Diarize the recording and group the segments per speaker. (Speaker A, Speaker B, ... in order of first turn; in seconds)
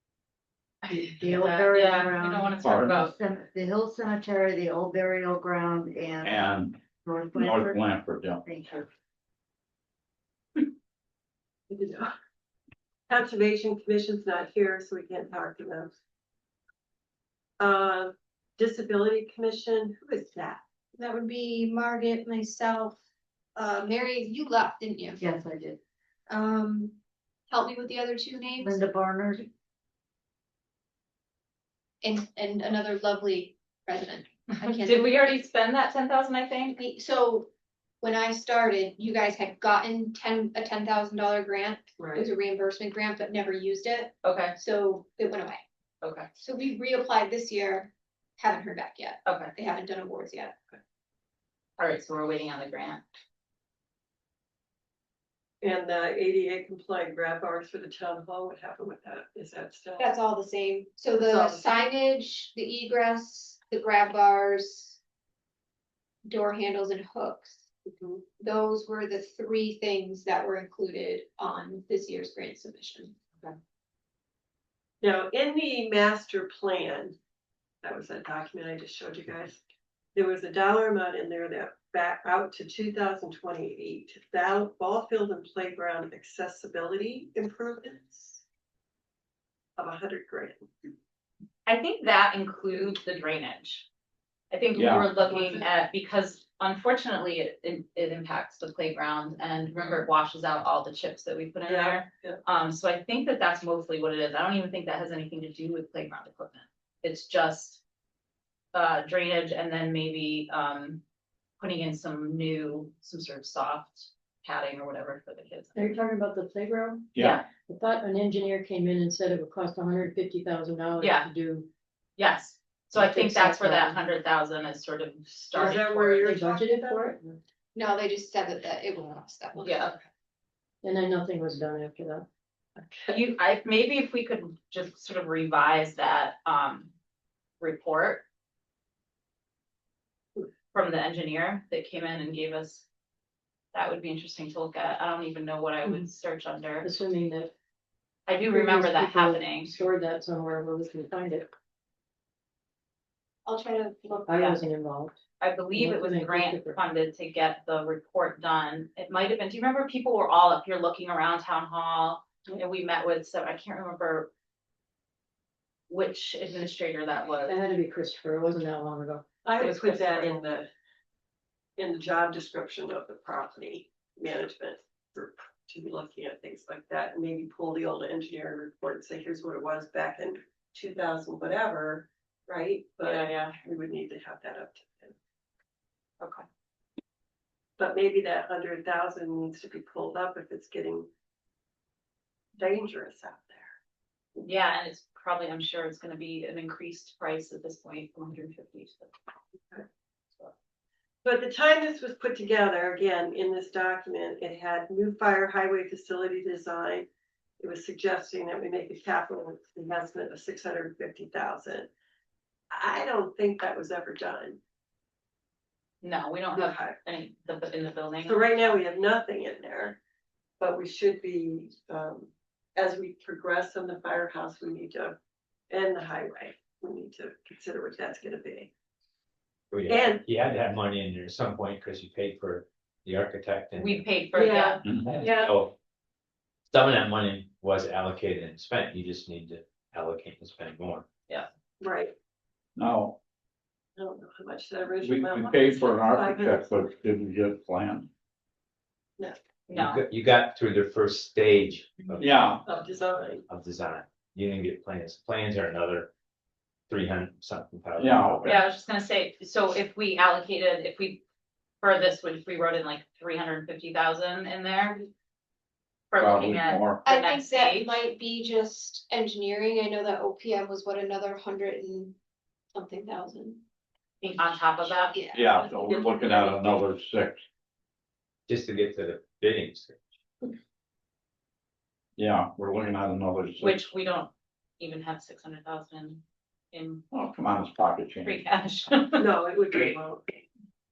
Speaker A: 0.8-3.1, 34.6-36.8, 44.2-44.5, 46.0-46.3, 49.2-49.5, 51.8-53.0, 91.7-93.8, 94.5-107.8, 108.7-111.0, 111.6-115.9, 117.2-117.4, 121.0-121.3, 122.2-126.3, 129.6-129.9, 133.1-136.9, 137.6-138.2, 140.7-142.8, 143.7-146.9, 148.3-149.8, 155.4-164.3, 165.9-167.6, 169.6-170.4, 183.0-183.5, 194.4-199.1, 216.0-218.8, 233.8-234.8, 249.7-250.0, 258.4-261.2, 261.8-265.1, 266.1-268.0, 274.2-275.2, 275.8-276.8, 283.6-287.0, 288.2-289.3
Speaker B: 0.9-6.5, 7.0-7.8, 8.4-8.9, 25.2-25.8, 28.6-29.5
Speaker C: 2.6-3.0, 6.2-6.8, 7.3-8.4, 94.8-95.1, 117.1-117.4, 242.8-243.2, 245.0-248.1, 252.2-252.6, 258.0-258.6, 266.2-267.0, 275.3-277.4, 282.2-283.8, 287.1-288.4
Speaker D: 11.7-12.1, 13.1-15.9, 17.6-20.6, 42.0-42.3, 55.6-60.1, 61.1-61.8, 67.8-68.2, 75.0-77.2, 77.8-79.6, 80.1-88.4, 89.8-90.7, 95.3-95.7, 101.7-102.4, 125.5-127.2, 169.4-170.7, 171.8-185.1, 187.8-191.1, 192.6-193.8, 201.2-207.1, 207.6-211.9, 212.7-214.6, 216.5-217.0, 218.2-220.0, 220.6-225.2, 225.7-228.7, 229.8-230.3, 234.3-235.6, 241.8-242.1, 244.0-246.7, 252.6-253.4, 289.2-290.3
Speaker E: 20.9-23.0, 23.6-25.2, 26.3-27.0, 27.5-28.8, 32.0-35.4, 36.8-37.5, 38.0-45.6, 46.4-50.6, 60.0-65.0, 66.2-67.6, 68.4-73.1, 127.7-129.9, 153.4-154.5, 267.0-272.1, 272.7-273.6, 275.1-275.6
Speaker F: 115.7-121.7, 123.0-124.0, 126.2-127.4, 130.8-132.3, 146.8-147.5, 148.5-151.5, 154.3-155.2, 155.7-156.8, 167.4-169.2
Speaker G: 229.7-234.2, 234.9-235.7, 236.7-241.1, 249.7-252.5, 253.5-256.1, 256.9-258.5, 278.5-280.1